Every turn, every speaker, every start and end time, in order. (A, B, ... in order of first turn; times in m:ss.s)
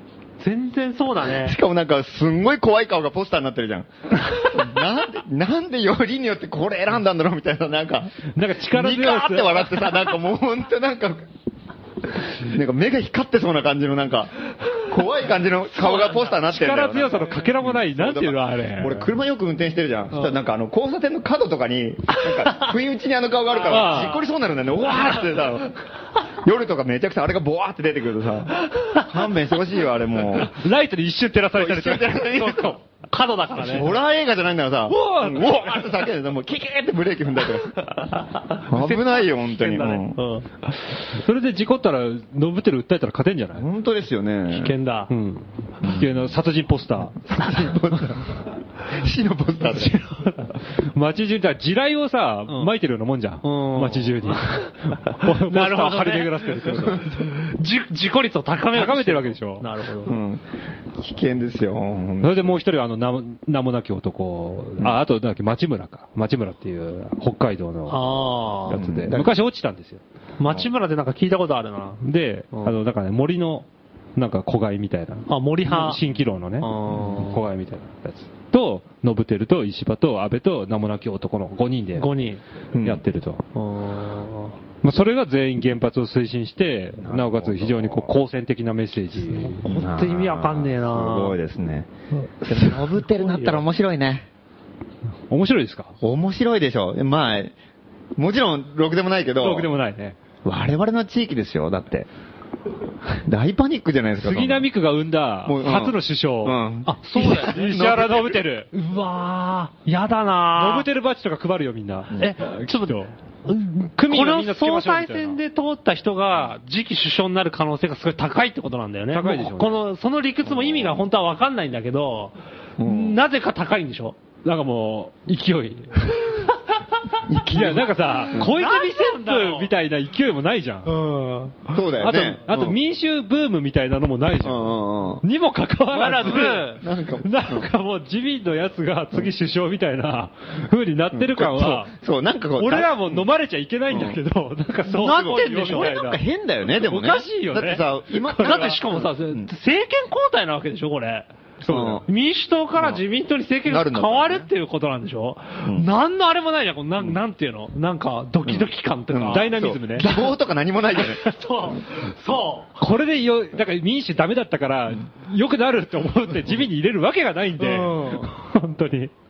0:00.4-0:01.6 A
0:01.3-0:11.3 B
0:08.3-0:10.0 C
0:12.1-0:25.8 B
0:16.3-0:19.1 C
0:23.5-0:24.2 A
0:23.7-0:24.2 C
0:26.4-0:30.6 B
0:30.3-0:32.2 C
0:31.5-0:32.8 B
0:32.3-0:33.9 A
0:33.6-0:40.2 B
0:34.9-0:35.7 C
0:38.6-0:40.5 A
0:41.1-0:43.6 C
0:43.5-0:44.7 B
0:44.5-0:45.1 A
0:45.1-0:48.1 C
0:45.8-0:46.1 B
0:47.3-0:50.0 B
0:50.7-0:57.1 C
0:53.4-0:54.7 A
0:55.2-1:00.1 A
0:56.9-0:57.2 B
0:58.7-0:59.6 C
1:00.0-1:00.4 B
1:00.9-1:02.5 B
1:02.2-1:08.0 C
1:07.9-1:08.8 A
1:08.7-1:10.0 C
1:08.7-1:09.3 B
1:10.4-1:12.0 A
1:12.0-1:22.1 C
1:15.3-1:16.0 A
1:16.6-1:17.4 A
1:22.0-1:22.4 A
1:22.7-1:23.0 B
1:22.8-1:23.4 C
1:23.5-1:24.6 A
1:24.8-1:29.7 C
1:27.0-1:28.1 B
1:29.3-1:31.4 A
1:29.6-1:31.9 B
1:32.1-1:33.6 A
1:32.5-1:34.2 B
1:35.3-1:36.0 C
1:36.0-1:37.5 B
1:38.2-1:39.7 B
1:39.4-1:40.2 C
1:40.4-1:42.1 B
1:43.2-1:44.7 B
1:44.2-1:46.6 C
1:45.4-1:48.4 B
1:46.9-1:47.7 A
1:47.1-1:48.7 C
1:48.7-1:50.8 A
1:50.5-1:53.1 C
1:52.2-2:04.2 A
1:53.8-1:55.4 C
1:59.1-1:59.8 C
2:02.8-2:03.2 B
2:04.4-2:06.4 C
2:07.3-2:08.5 B
2:07.5-2:10.9 C
2:08.0-2:09.7 A
2:10.8-2:11.7 A
2:11.7-2:12.8 B
2:12.0-2:21.9 C
2:14.4-2:15.2 B
2:15.9-2:16.8 A
2:16.2-2:17.6 B
2:21.1-2:23.2 B
2:22.6-2:26.2 C
2:23.9-2:24.2 B
2:24.9-2:26.0 A
2:25.6-2:29.5 B
2:26.8-2:28.8 C
2:28.4-2:31.3 A
2:31.6-2:32.0 C
2:31.7-2:32.0 B
2:32.0-2:39.6 A
2:33.6-2:34.5 B
2:38.4-2:41.3 B
2:39.3-2:40.1 C
2:40.9-2:42.8 A
2:42.8-2:49.1 C
2:47.6-2:48.3 A